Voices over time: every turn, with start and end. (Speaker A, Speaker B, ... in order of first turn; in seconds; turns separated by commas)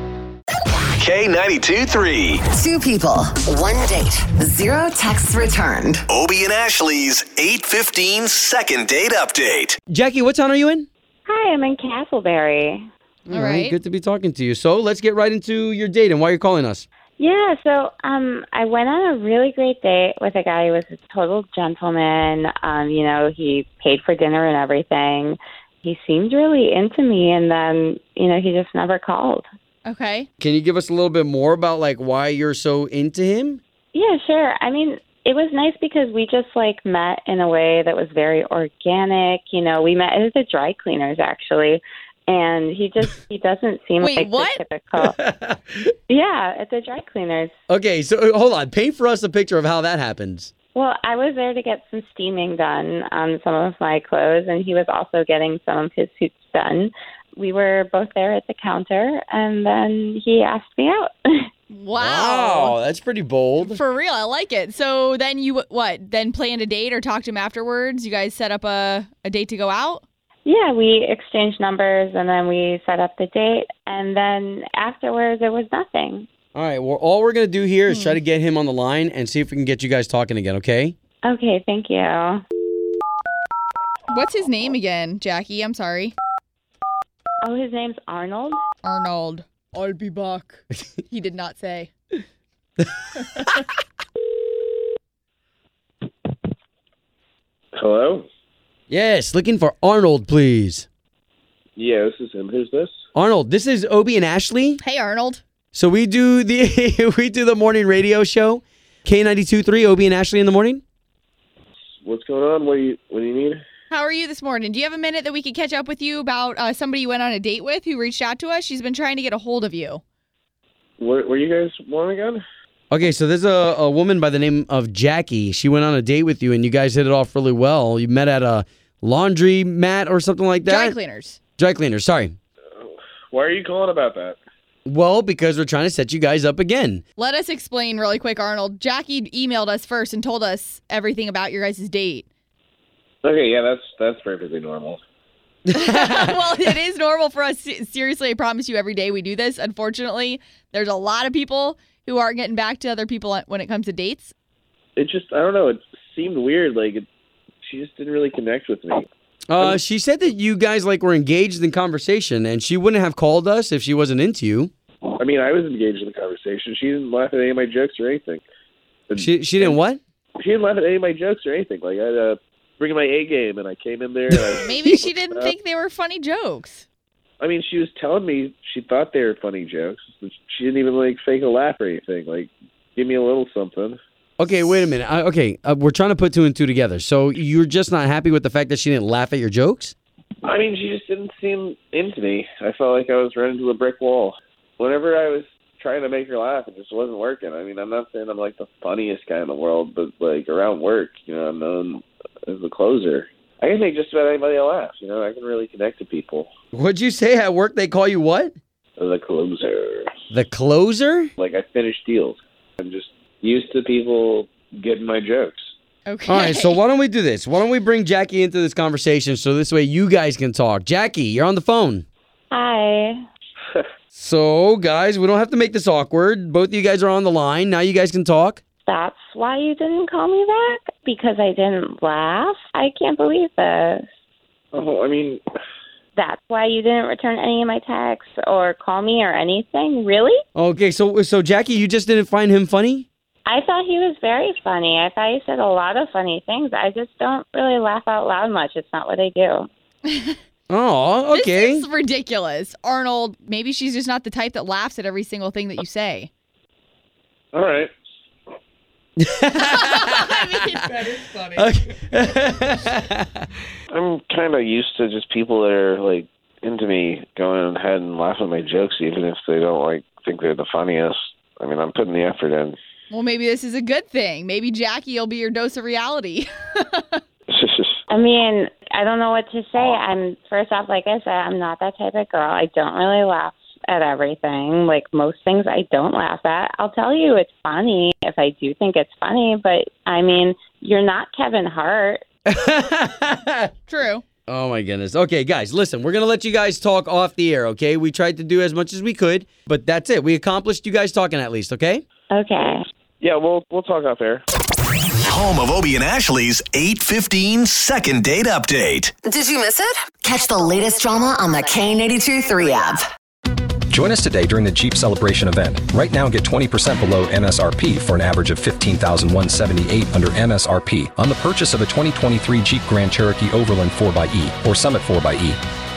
Speaker A: 1.0-2.4, Speaker B: 2.5-6.1, Speaker A: 6.1-9.8, Speaker C: 9.9-10.9, Speaker D: 11.3-12.9, Speaker C: 13.3-16.9, Speaker E: 13.3-13.8, Speaker D: 17.2-29.4, Speaker E: 29.9-30.3, Speaker C: 30.4-33.6, Speaker D: 33.9-45.2, Speaker E: 44.0-44.6, Speaker C: 45.0-45.8, Speaker D: 46.1-47.5, Speaker C: 47.7-50.5, Speaker D: 50.7-61.5, Speaker E: 61.7-62.8, Speaker C: 62.0-63.8, Speaker E: 63.6-70.0, Speaker D: 70.5-76.3, Speaker C: 76.5-81.0, Speaker E: 77.9-78.2, Speaker D: 81.2-82.4, Speaker E: 84.1-86.2, Speaker D: 87.4-88.6, Speaker E: 88.8-91.9, Speaker F: 97.8-98.3, Speaker C: 98.9-100.9, Speaker F: 101.8-102.9, Speaker C: 103.1-104.8, Speaker E: 104.8-105.4, Speaker C: 105.7-110.8, Speaker F: 112.0-113.6, Speaker E: 113.9-120.0, Speaker F: 121.0-122.4, Speaker C: 122.9-131.0, Speaker E: 130.7-131.4, Speaker C: 131.6-132.3, Speaker F: 132.8-134.4, Speaker C: 134.9-137.0, Speaker E: 137.2-142.3, Speaker F: 143.2-145.0, Speaker E: 145.7-154.3, Speaker C: 145.9-146.3, Speaker F: 155.0-157.1, Speaker F: 157.6-159.1, Speaker C: 159.5-164.7, Speaker F: 165.2-168.4, Speaker F: 169.1-169.8, Speaker C: 169.2-170.0, Speaker F: 170.4-175.6, Speaker C: 174.3-174.8, Speaker E: 174.6-176.8, Speaker F: 177.4-184.0, Speaker C: 184.4-189.9, Speaker F: 190.4-206.5, Speaker C: 206.7-208.6, Speaker F: 209.0-210.1, Speaker C: 210.3-211.3, Speaker F: 211.4-215.7, Speaker E: 216.1-216.7, Speaker C: 216.3-222.1, Speaker D: 222.5-223.2, Speaker C: 224.1-228.6, Speaker D: 228.9-234.1, Speaker F: 234.7-235.4, Speaker D: 236.2-240.4, Speaker C: 240.6-243.1, Speaker D: 243.5-249.7, Speaker E: 250.1-250.4, Speaker C: 250.7-251.8, Speaker E: 251.3-256.3, Speaker F: 257.5-257.9, Speaker C: 259.2-263.5, Speaker E: 259.6-261.7, Speaker F: 263.9-272.8, Speaker E: 273.1-277.2, Speaker F: 277.5-278.0, Speaker D: 278.1-292.2, Speaker C: 292.5-293.7, Speaker E: 293.9-294.2, Speaker C: 294.5-302.0, Speaker D: 302.3-302.9, Speaker F: 303.2-304.4, Speaker A: 305.3-309.1, Speaker B: 309.2-313.1, Speaker G: 313.9-325.6